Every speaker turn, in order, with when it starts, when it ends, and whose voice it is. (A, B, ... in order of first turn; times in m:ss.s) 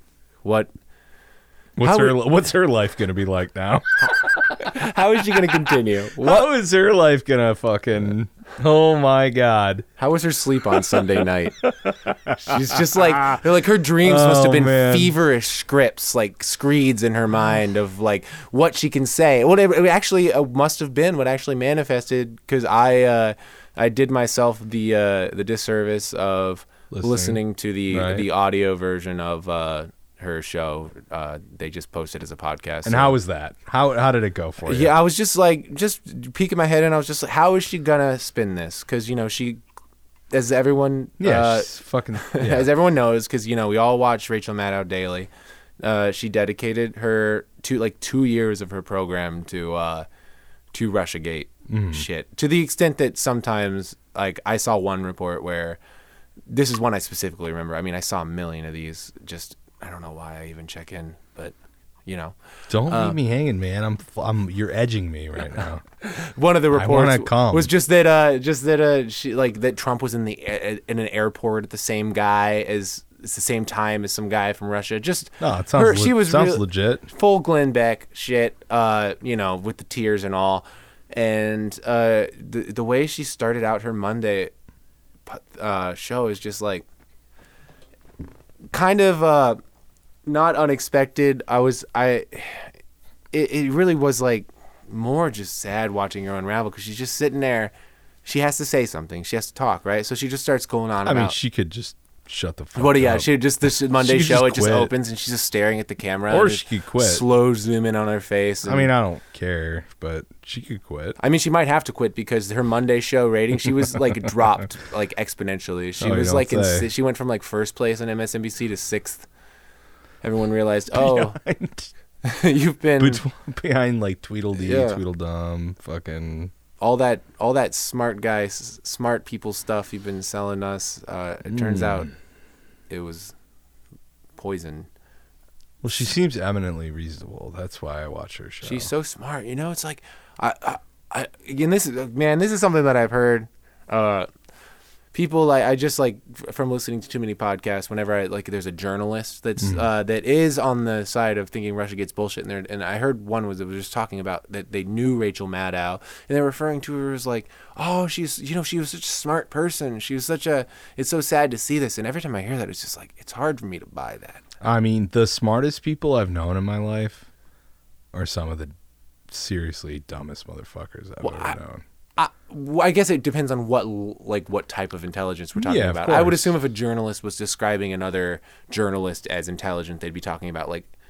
0:00.4-0:00.7 A
0:01.8-0:04.7 B
0:01.8-0:02.2 A
0:04.6-0:06.5 A
0:05.7-0:09.9 B
0:10.0-0:11.6 A
0:11.6-0:13.3 B
0:12.4-0:33.2 A
0:14.0-0:15.2 B
0:26.9-0:28.3 B
0:32.8-0:35.0 B
0:34.6-0:39.6 A
0:40.3-0:45.3 A
0:41.2-0:42.7 B
0:45.8-0:50.1 A
0:50.7-0:55.8 A
0:51.7-0:52.1 B
0:56.5-1:01.5 A
1:02.1-1:02.4 A
1:02.7-1:05.8 B
1:02.9-1:03.2 A
1:06.0-1:24.5 A
1:06.7-1:07.7 B
1:15.4-1:17.1 B
1:25.3-1:26.8 A
1:28.7-1:29.6 A
1:30.3-1:32.7 A
1:33.3-1:37.7 A
1:38.2-1:41.4 A
1:41.0-1:44.9 B
1:42.8-1:48.9 A
1:46.3-1:47.2 B
1:48.6-1:51.2 B
1:51.2-1:59.3 A
1:56.0-1:56.9 B
2:00.2-2:01.4 A
2:00.9-2:01.9 B
2:02.2-2:03.2 A
2:03.0-2:06.5 B
2:04.6-2:05.0 A
2:06.8-2:12.1 A
2:11.5-2:12.1 B
2:12.9-2:13.4 A
2:14.4-2:14.9 A
2:15.8-2:18.9 B
2:18.6-2:24.3 A
2:25.1-2:44.4 A
2:29.6-2:29.9 B
2:44.6-2:47.3 B
2:48.1-2:48.7 B
2:49.3-2:51.8 B
2:51.2-2:51.6 A
2:52.2-3:00.9 A
2:55.6-2:56.6 B